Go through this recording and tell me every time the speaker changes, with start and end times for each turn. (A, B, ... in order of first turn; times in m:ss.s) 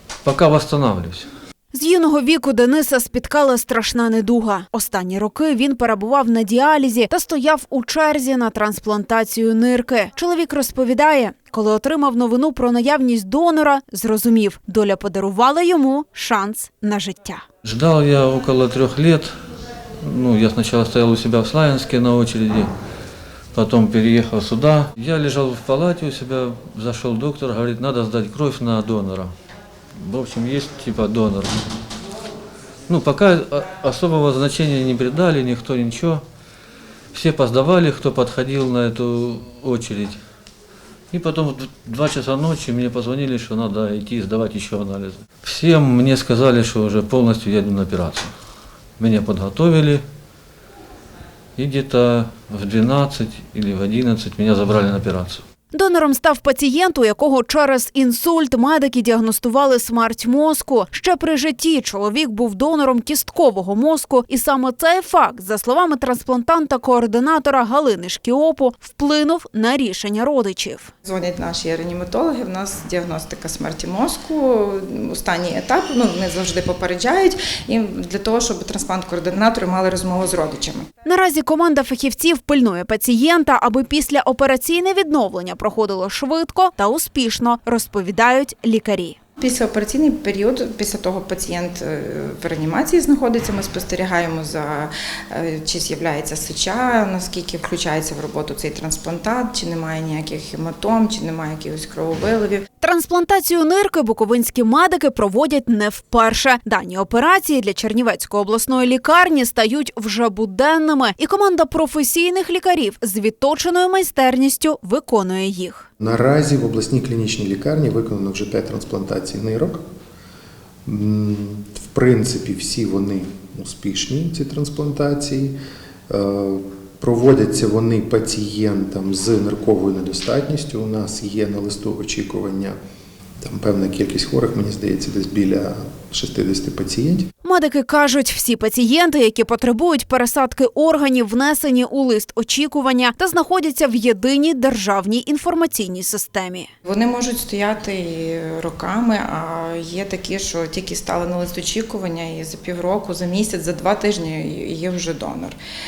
0:00.2-0:01.3 A
0:01.7-0:17.4 B
0:17.6-0:19.3 A
0:20.0-0:22.7 A
0:23.5-0:29.3 A
0:30.0-0:31.6 A
0:32.9-0:36.2 A
0:37.1-0:40.2 A
0:41.1-0:48.3 A
0:49.0-0:50.0 A
0:51.6-0:55.4 A
0:55.7-1:10.9 B
1:11.0-1:20.9 C
1:21.0-1:29.2 B
1:29.4-1:42.7 C
1:42.8-1:55.9 B
1:56.0-1:59.8 D
2:00.8-2:05.5 D
2:06.1-2:12.8 D
2:13.4-2:17.3 D
2:17.4-2:26.7 B
2:26.8-2:35.6 C